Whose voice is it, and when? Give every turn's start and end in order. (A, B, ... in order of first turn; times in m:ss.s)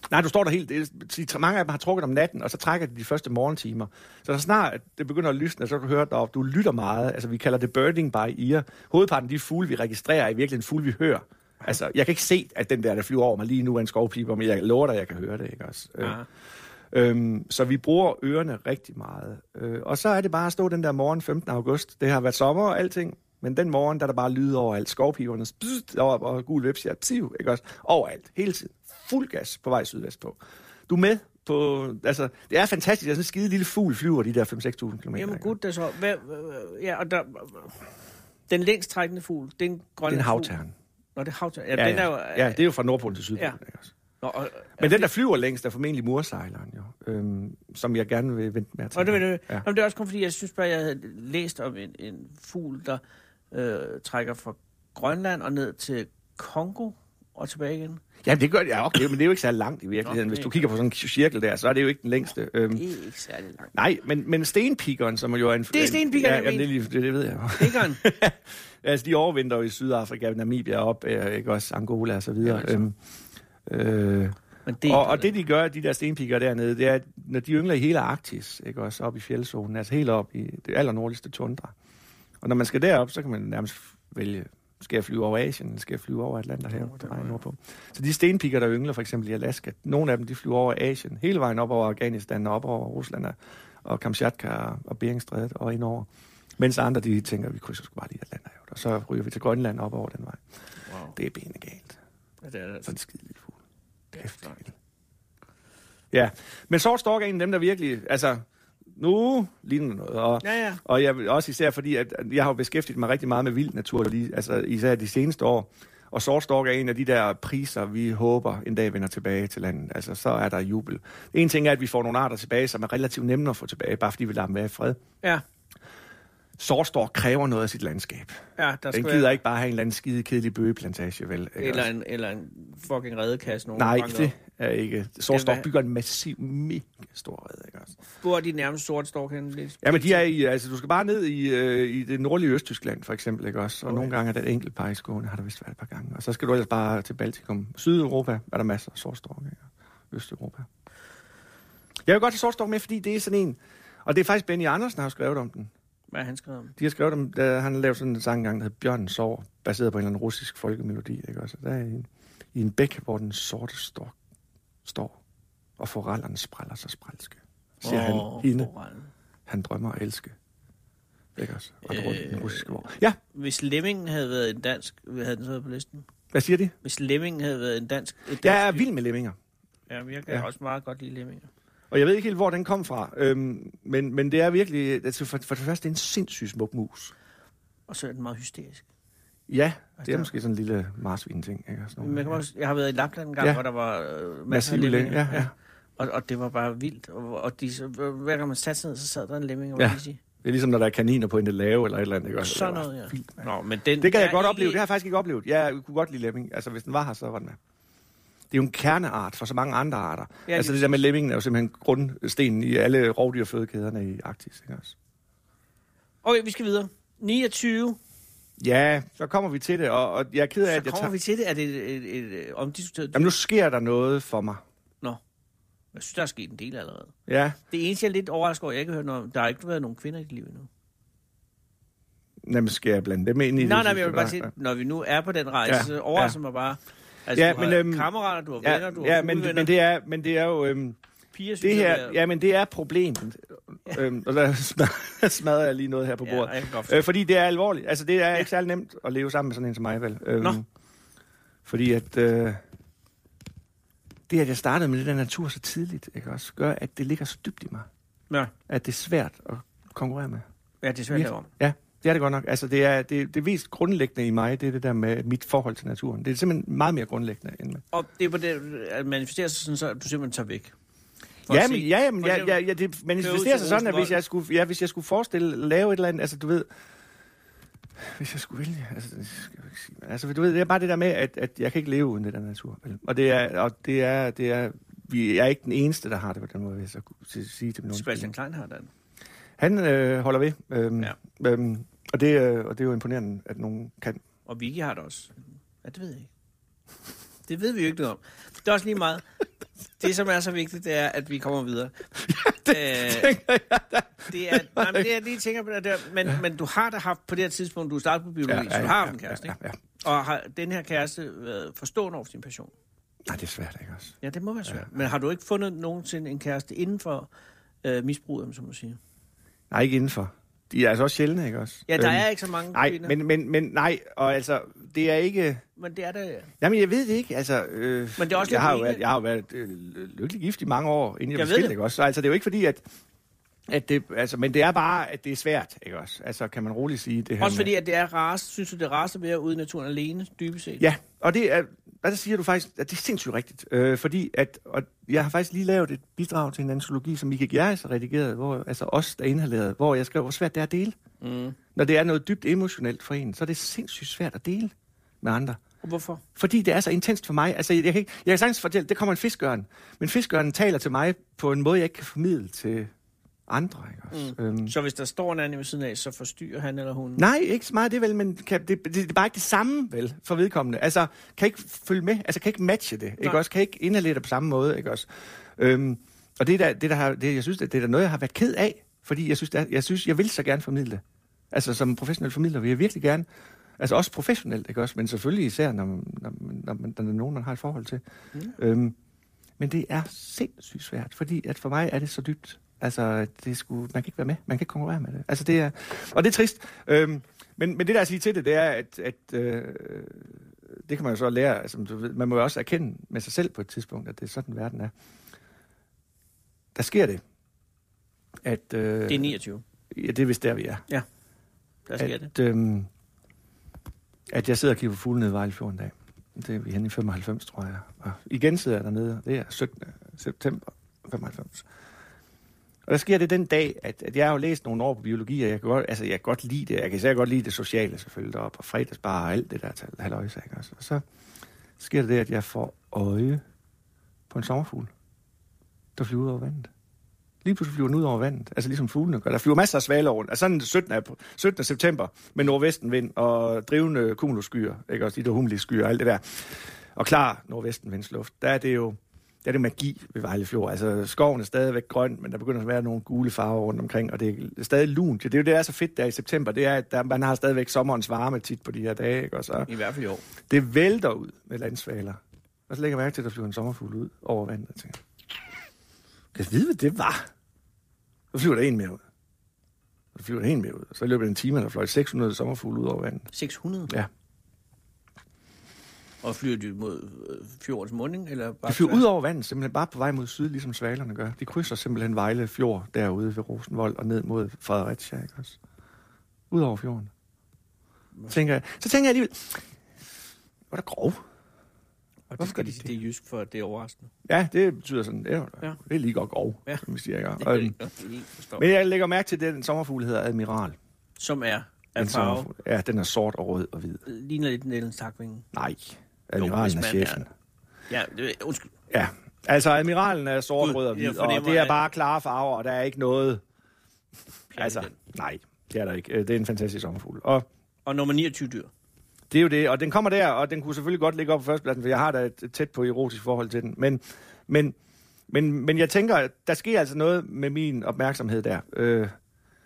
0:00.1-0:16.2 A
0:16.9-0:35.5 A
0:35.2-0:37.8 B
0:38.5-0:40.5 B
0:40.1-0:40.7 A
0:41.2-0:42.6 B
0:41.8-0:43.9 A
0:44.2-0:45.1 B
0:44.8-0:49.7 A
0:48.9-0:53.0 B
0:53.5-0:58.0 B
0:58.2-1:02.8 A
1:00.0-1:00.6 B
1:02.7-1:03.7 B
1:03.7-1:13.0 A
1:05.7-1:06.7 B
1:07.6-1:08.0 B
1:12.4-1:12.8 B
1:13.7-1:21.7 A
1:14.7-1:15.3 B
1:22.4-1:40.4 A
1:26.8-1:27.4 B
1:40.9-1:41.2 B
1:41.2-1:42.0 A
1:42.4-1:42.9 B
1:42.9-1:43.6 A
1:44.1-1:44.6 B
1:44.2-1:44.7 A
1:46.1-1:48.4 A
1:49.0-2:05.0 A
1:50.4-1:50.8 B
2:06.6-2:08.4 A
2:08.6-2:09.4 B
2:08.9-2:11.9 A
2:11.6-2:14.4 B
2:13.8-2:18.0 A
2:15.3-2:15.7 B
2:18.2-2:20.3 B
2:19.8-2:30.7 A
2:23.9-2:24.2 B
2:32.1-2:35.7 A
2:36.1-2:36.8 B
2:36.8-2:44.2 A
2:44.8-2:45.2 A
2:45.8-2:48.7 A
2:47.8-2:49.1 B
2:49.5-2:50.3 A
2:51.4-2:53.2 A
2:51.9-2:52.8 B
2:53.3-2:56.1 B
2:56.3-2:56.7 A
2:56.8-2:58.8 B
2:58.4-2:59.4 A
2:59.9-3:01.5 B
3:01.9-3:07.1 A
3:07.9-3:08.8 B
3:09.5-3:12.4 A
3:10.0-3:10.3 B
3:12.0-3:20.2 B
3:14.5-3:15.5 A
3:19.8-3:23.5 A
3:22.4-3:24.8 B
3:24.0-3:27.6 A
3:28.5-3:35.0 A
3:30.5-3:31.0 B
3:36.2-3:38.0 B
3:38.6-3:41.1 A
3:40.7-3:43.3 B
3:43.1-3:44.6 A
3:45.9-3:47.1 B
3:47.3-3:47.6 A
3:47.7-3:50.7 B
3:52.4-3:54.5 A
3:53.6-3:59.7 B
3:55.7-3:56.4 A
3:57.3-4:01.0 A
4:01.3-4:02.2 B
4:01.6-4:10.6 A
4:06.2-4:07.1 B
4:11.7-4:12.6 A
4:14.3-4:17.9 A
4:18.7-4:20.4 A
4:20.8-4:21.5 B
4:21.1-4:27.8 A
4:27.9-4:30.7 B
4:31.5-4:32.6 B
4:31.5-4:36.7 A
4:33.2-4:34.2 B
4:38.0-4:48.3 A
4:47.9-4:48.9 B
4:49.6-4:54.2 A
4:54.5-4:56.3 B
4:57.5-4:59.2 B
5:00.0-5:02.1 B
5:02.2-5:05.1 A
5:02.7-5:03.4 B
5:04.3-5:12.7 B
5:08.5-5:09.8 A
5:13.2-5:14.2 A
5:14.2-5:17.3 B
5:17.8-5:19.0 B
5:19.7-5:25.6 A
5:21.9-5:23.2 B
5:25.8-5:26.5 B
5:26.6-5:32.8 A
5:28.2-5:29.0 B
5:31.4-5:31.8 B
5:33.7-5:37.7 A
5:37.4-5:40.9 B
5:40.8-5:51.0 A
5:51.2-5:51.6 B
5:51.8-5:55.6 A
5:55.8-5:56.2 B
5:56.4-6:02.9 A
6:03.5-6:04.7 A
6:04.1-6:07.2 B
6:07.2-6:23.3 A
6:23.8-6:28.0 A
6:28.6-6:29.0 A
6:29.6-6:44.9 A
6:46.8-6:47.2 A
6:48.4-6:49.3 A
6:49.1-6:49.6 B
6:49.9-6:50.8 A
6:51.9-6:52.3 B
6:52.0-6:52.9 A
6:54.3-7:01.6 A
7:02.9-7:11.0 A
7:11.8-7:13.4 A
7:14.3-7:14.9 A
7:16.0-7:16.7 A
7:17.4-7:39.7 A
7:39.7-7:40.3 B
7:40.4-7:45.0 A
7:46.3-7:47.3 A
7:48.3-7:49.0 A
7:50.2-7:53.3 A
7:53.3-7:53.9 B
7:56.2-7:59.1 B
7:58.7-8:05.6 A
8:06.5-8:07.1 A
8:08.3-8:09.6 A
8:10.7-8:11.2 A
8:12.3-8:14.1 B
8:12.4-8:12.9 A
8:14.3-8:17.8 A
8:17.4-8:18.6 B
8:18.6-8:20.8 A
8:21.2-8:22.5 B
8:22.0-8:24.0 A
8:24.1-8:25.5 B
8:25.5-8:27.3 A
8:26.4-8:27.2 B
8:27.9-8:28.7 B
8:28.9-8:33.4 A
8:30.6-8:31.8 B
8:34.5-8:35.0 B
8:34.5-8:37.5 A
8:37.9-8:38.7 B
8:39.3-8:44.8 A
8:45.3-8:49.1 A